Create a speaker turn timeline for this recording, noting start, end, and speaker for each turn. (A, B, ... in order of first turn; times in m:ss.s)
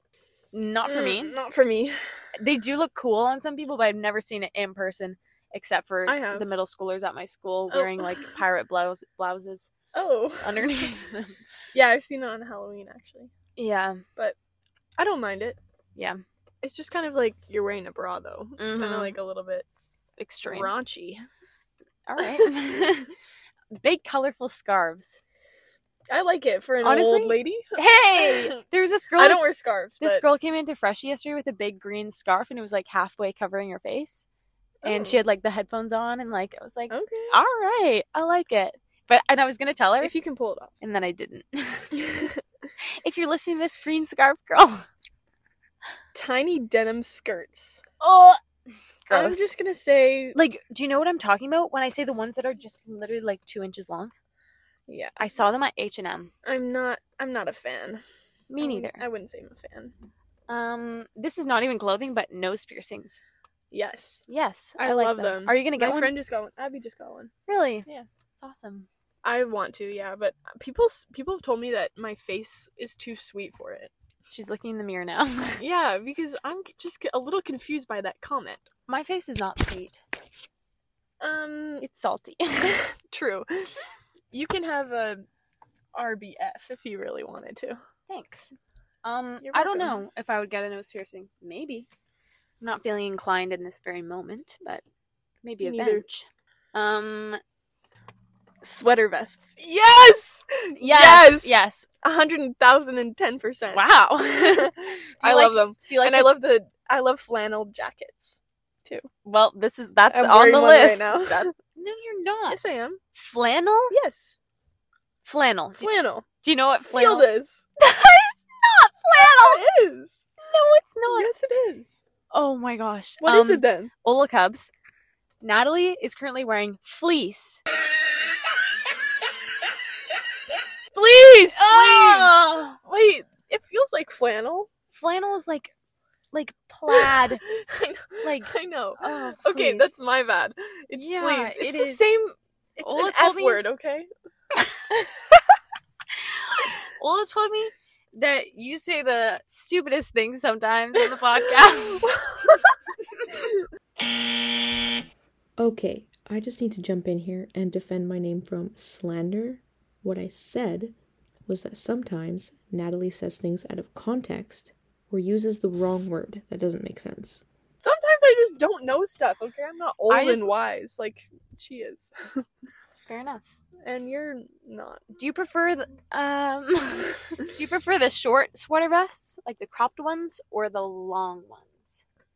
0:00.5-0:01.4 A
0:00.8-0:02.0 B
0:02.4-0:09.7 A
0:06.1-0:06.5 B
0:07.7-0:08.3 B
0:09.9-0:10.9 B
0:10.4-0:11.4 A
0:11.7-0:13.3 B
0:13.6-0:14.0 A
0:15.0-0:15.6 B
0:16.0-0:16.2 A
0:16.6-0:19.7 B
0:18.6-0:19.2 A
0:20.2-0:20.7 A
0:20.4-0:21.2 B
0:22.1-0:23.1 A
0:22.2-0:22.5 B
0:23.7-0:25.2 A
0:26.1-0:28.6 B
0:26.8-0:29.4 A
0:29.2-0:30.2 B
0:30.0-0:34.3 A
0:34.8-0:35.2 B
0:34.8-0:40.1 A
0:36.9-0:37.4 B
0:40.0-0:40.7 B
0:40.8-0:42.0 A
0:42.0-0:42.4 B
0:43.0-0:44.9 A
0:46.1-0:47.8 B
0:48.0-0:48.4 A
0:49.1-0:49.5 A
0:49.1-0:50.4 B
0:50.4-0:54.1 A
0:54.9-0:55.2 B
0:55.2-0:56.3 A
0:56.4-0:58.0 B
0:58.5-0:59.0 A
0:58.6-0:59.9 B
1:00.5-1:03.2 A
1:03.7-1:07.3 B
1:04.3-1:06.1 A
1:07.5-1:07.9 A
1:08.4-1:08.9 A
1:09.2-1:13.9 B
1:14.3-1:15.6 A
1:15.6-1:18.7 B
1:18.9-1:20.0 A
1:21.2-1:21.8 B
1:21.8-1:22.8 A
1:22.7-1:23.8 B
1:24.3-1:25.2 B
1:25.9-1:27.8 B
1:28.1-1:31.9 A
1:29.4-1:30.0 B
1:32.6-1:34.8 A
1:35.4-1:37.4 A
1:35.6-1:36.0 B
1:38.6-1:49.1 B
1:40.8-1:41.9 A
1:43.7-1:46.3 A
1:49.2-1:52.6 A
1:50.1-1:51.5 B
1:52.5-1:53.0 B
1:53.2-1:54.0 A
1:53.9-1:54.4 B
1:55.2-1:55.9 A
1:55.8-1:56.3 B
1:56.4-1:57.3 A
1:56.9-1:57.7 B
1:57.8-1:59.6 A
1:59.1-2:00.2 B
2:00.4-2:01.3 A
2:01.1-2:02.0 B
2:02.3-2:04.7 A
2:03.2-2:03.9 B
2:05.4-2:07.6 A
2:10.9-2:14.7 B
2:11.5-2:12.8 A
2:14.9-2:15.7 A
2:16.3-2:17.4 A
2:16.9-2:24.1 B
2:18.2-2:19.9 A
2:21.0-2:22.1 A
2:22.8-2:23.6 A
2:26.4-2:32.1 A
2:31.9-2:32.8 B
2:33.3-2:33.6 B
2:35.6-2:41.0 C
2:41.5-2:47.4 C
2:47.8-2:52.5 B
2:50.1-2:50.5 A
2:53.1-2:53.5 A
2:53.8-2:55.1 B
2:55.2-3:02.0 A